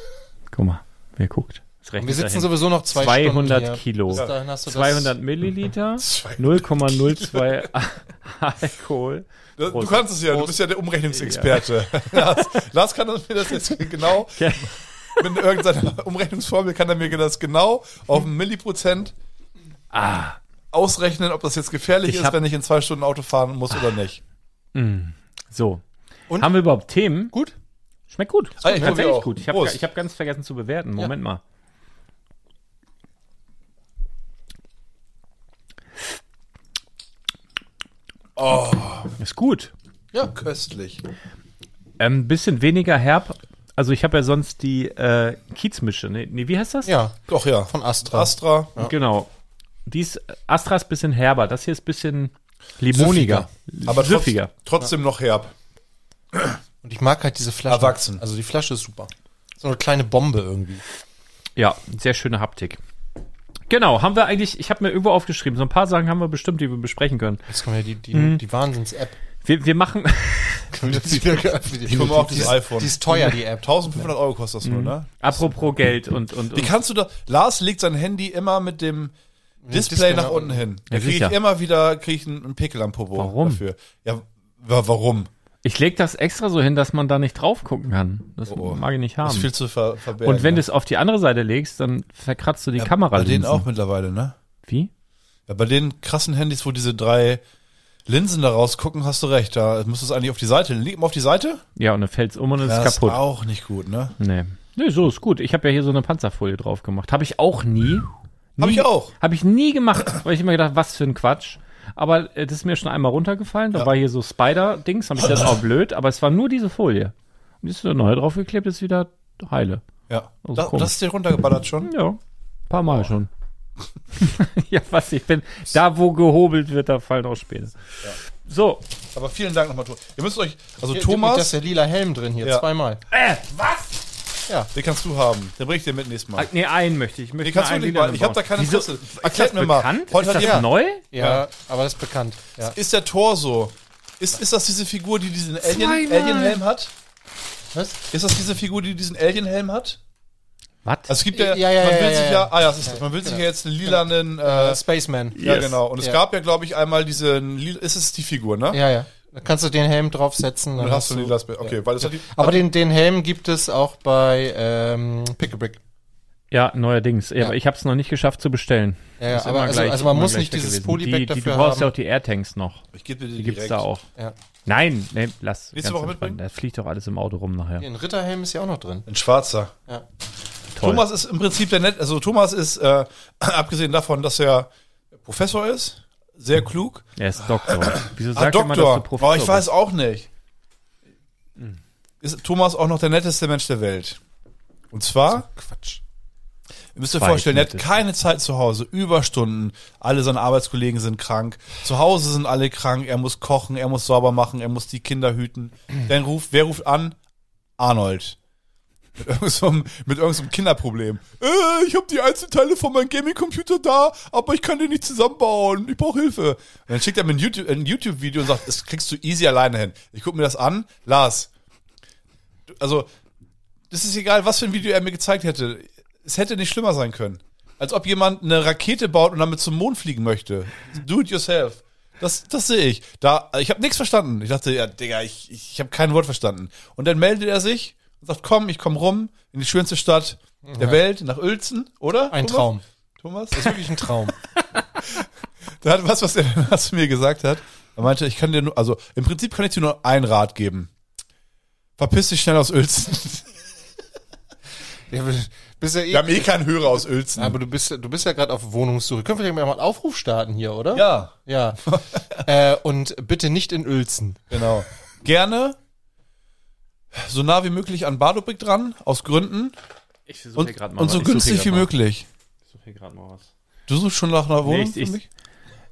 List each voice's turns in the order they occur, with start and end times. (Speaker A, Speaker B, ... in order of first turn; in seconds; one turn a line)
Speaker A: 0.5-10.1
Speaker B: 2.0-5.1
Speaker C: 6.0-7.4
Speaker C: 9.6-14.4
Speaker A: 11.2-12.6
Speaker A: 14.3-15.3
Speaker C: 15.2-19.1
Speaker A: 19.9-20.4
Speaker C: 20.7-24.2
Speaker A: 22.0-22.4
Speaker A: 24.7-25.8
Speaker A: 26.4-27.3
Speaker A: 28.1-31.4
Speaker C: 28.6-29.8
Speaker B: 28.6-29.0
Speaker C: 38.4-39.1
Speaker A: 39.2-39.7
Speaker C: 40.1-41.0
Speaker A: 42.0-46.9
Speaker B: 46.9-48.9
Speaker C: 47.3-48.7
Speaker A: 48.8-49.3
Speaker A: 49.9-54.5
Speaker B: 52.9-53.5
Speaker C: 53.9-55.5
Speaker B: 56.8-60.8
Speaker C: 57.7-58.2
Speaker A: 61.6-62.8
Speaker A: 63.7-67.5
Speaker B: 67.5-69.2
Speaker A: 68.1-68.4
Speaker A: 69.4-71.2
Speaker B: 70.7-74.1
Speaker C: 71.9-75.5
Speaker A: 74.6-76.8
Speaker C: 76.5-79.1
Speaker B: 79.7-80.6
Speaker C: 79.7-85.3
Speaker A: 80.9-81.4
Speaker A: 83.2-83.6
Speaker A: 85.6-89.5
Speaker C: 88.5-90.7
Speaker A: 90.2-93.7
Speaker C: 92.8-94.3
Speaker C: 95.5-97.4
Speaker C: 98.1-101.6
Speaker A: 101.8-103.2
Speaker C: 102.6-104.2
Speaker A: 104.2-108.1
Speaker C: 108.6-109.1
Speaker A: 108.6-119.8
Speaker C: 120.1-121.9
Speaker A: 120.4-121.0
Speaker A: 121.8-123.3
Speaker A: 124.2-127.8
Speaker A: 128.3-128.8
Speaker C: 129.1-131.6
Speaker B: 130.9-133.0
Speaker A: 133.1-133.9
Speaker C: 134.7-136.5
Speaker A: 136.4-141.1
Speaker C: 137.4-141.4
Speaker B: 140.3-142.8
Speaker C: 142.7-146.9
Speaker A: 145.6-146.6
Speaker B: 147.7-148.0
Speaker C: 148.1-150.0
Speaker A: 150.8-151.2
Speaker C: 151.1-154.8
Speaker B: 151.3-156.2
Speaker A: 155.3-155.8
Speaker C: 155.4-158.8
Speaker B: 158.7-165.8
Speaker C: 160.8-162.7
Speaker A: 166.5-172.8
Speaker B: 169.2-171.9
Speaker C: 172.9-173.8
Speaker A: 173.4-174.0
Speaker A: 174.7-177.9
Speaker C: 175.8-176.4
Speaker B: 177.8-179.1
Speaker C: 179.1-179.7
Speaker A: 180.8-181.0
Speaker C: 180.8-184.7
Speaker C: 185.2-187.1
Speaker A: 187.2-189.7
Speaker C: 187.7-190.3
Speaker C: 192.2-194.2
Speaker C: 194.9-195.5
Speaker B: 195.3-196.0
Speaker C: 197.0-207.2
Speaker A: 197.2-197.9
Speaker C: 207.8-208.4
Speaker C: 209.2-221.5
Speaker C: 222.7-223.1
Speaker C: 223.9-243.8
Speaker B: 240.7-241.0
Speaker B: 242.3-242.8
Speaker B: 243.6-244.4
Speaker C: 245.0-245.3
Speaker C: 245.8-250.9
Speaker C: 252.0-253.5
Speaker B: 255.1-256.5
Speaker C: 256.1-257.6
Speaker B: 257.4-261.8
Speaker C: 260.9-262.4
Speaker B: 262.4-264.6
Speaker C: 264.5-265.8
Speaker C: 267.1-269.8
Speaker A: 270.3-271.9
Speaker C: 270.6-272.3
Speaker A: 272.7-273.5
Speaker C: 273.9-275.2
Speaker A: 274.6-275.2